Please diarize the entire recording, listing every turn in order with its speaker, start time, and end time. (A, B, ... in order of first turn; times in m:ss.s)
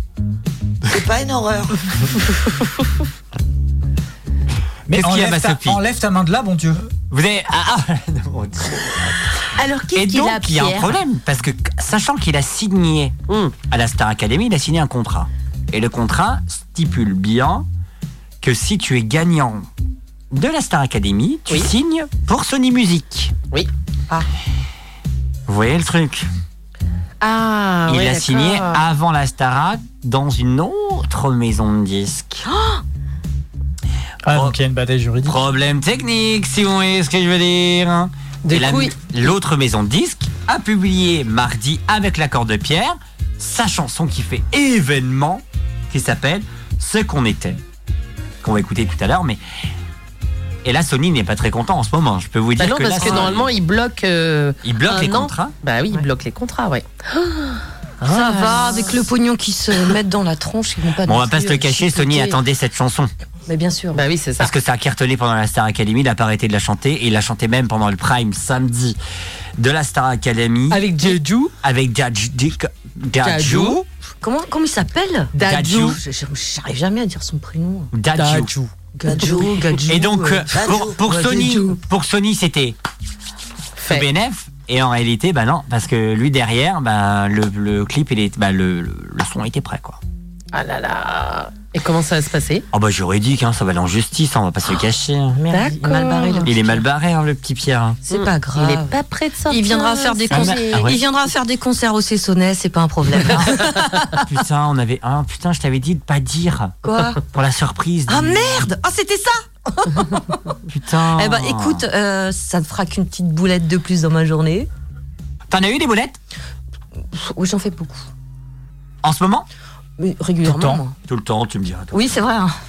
0:00.9-0:01.7 A
0:04.9-0:06.9 B
0:04.9-0:05.8 C
0:07.1-0:09.1 C
0:09.6-0:10.9 D
0:09.9-0:13.1 C
0:13.3-0:13.5 D
0:13.7-0:17.6 C
0:18.4-0:19.7 C
0:20.3-0:23.3 C
0:23.5-0:24.2 D
0:25.5-0:26.3 C
0:27.2-0:28.8 D
0:27.9-0:32.4 C
0:32.5-0:32.8 E
0:34.2-0:35.4 B
0:35.2-0:47.6 C
0:38.4-0:38.9 D
0:48.4-0:49.4 C
0:50.6-0:53.5 C
0:52.6-0:59.0 D
0:53.0-0:53.3 E
0:54.6-0:55.5 C
0:58.0-1:02.4 E
1:01.0-1:03.1 C
1:03.4-1:04.0 E
1:03.9-1:04.5 D
1:04.4-1:09.0 C
1:09.6-1:10.9 C
1:10.7-1:11.5 D
1:11.6-1:13.8 C
1:13.2-1:13.8 D
1:14.2-1:17.9 E
1:15.3-1:16.0 D
1:15.4-1:16.0 C
1:17.9-1:18.5 C
1:18.1-1:19.5 D
1:19.0-1:20.5 E
1:19.0-1:19.6 A
1:19.9-1:22.8 C
1:20.5-1:21.7 A
1:23.8-1:24.0 D
1:23.9-1:30.0 C
1:30.5-1:32.6 D
1:32.7-1:35.4 C
1:35.4-1:36.8 E
1:35.5-1:36.5 D
1:36.4-1:38.0 C
1:38.1-1:44.2 E
1:38.1-1:40.9 D
1:40.3-1:41.0 C
1:44.2-1:46.8 C
1:46.8-1:47.2 E
1:47.3-1:48.6 C
1:48.1-1:50.5 E
1:50.7-1:51.8 C
1:51.1-1:54.7 E
1:55.5-1:56.2 C
1:57.1-1:58.1 E
1:59.0-1:59.4 C
2:00.0-2:00.9 E
2:00.4-2:00.8 B
2:01.0-2:02.1 C
2:01.9-2:02.5 E